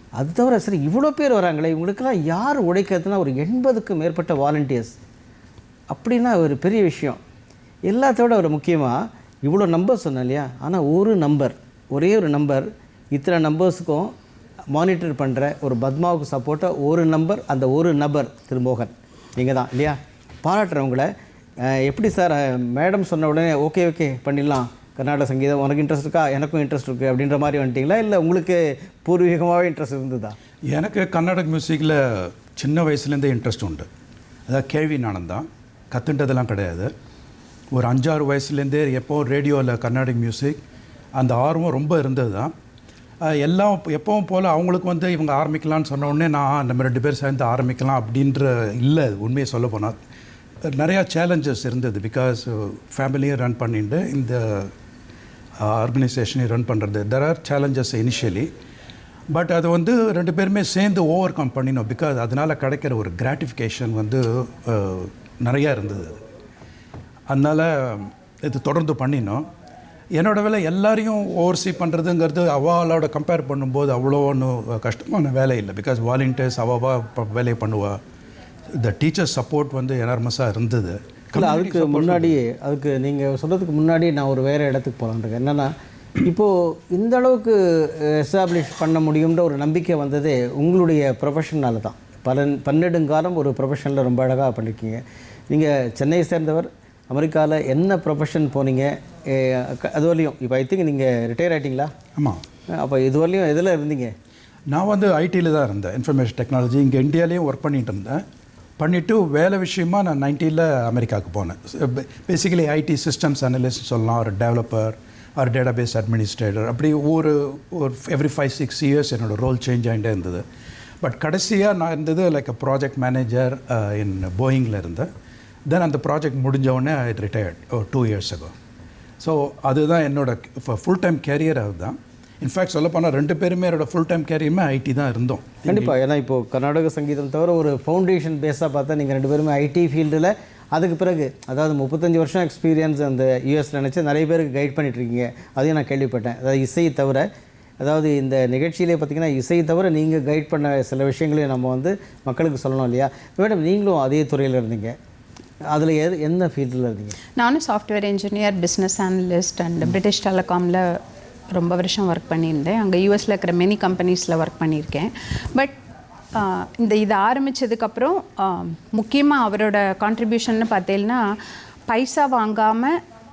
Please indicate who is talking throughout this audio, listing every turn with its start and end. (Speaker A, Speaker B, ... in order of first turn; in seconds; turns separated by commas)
Speaker A: 0.2-5.0, Speaker A: 5.9-7.2, Speaker A: 7.9-14.1, Speaker A: 14.7-21.1, Speaker A: 21.6-30.4, Speaker B: 30.7-33.9, Speaker B: 34.5-36.9, Speaker B: 37.7-40.6, Speaker B: 41.2-42.5, Speaker B: 43.2-50.0, Speaker B: 50.7-54.7, Speaker B: 55.6-58.5, Speaker B: 59.3-66.2, Speaker B: 67.3-69.5, Speaker B: 70.1-78.0, Speaker B: 78.8-82.3, Speaker A: 81.3-85.7, Speaker A: 86.2-101.9, Speaker B: 102.2-102.4, Speaker A: 102.7-104.1, Speaker B: 104.7-108.2, Speaker B: 108.8-120.4, Speaker B: 121.0-125.1, Speaker B: 125.7-128.5, Speaker B: 129.2-135.9, Speaker A: 135.7-147.3, Speaker A: 147.8-154.9, Speaker A: 155.7-157.2, Speaker C: 157.4-161.0, Speaker C: 161.5-165.8, Speaker C: 166.3-171.4, Speaker C: 171.9-173.0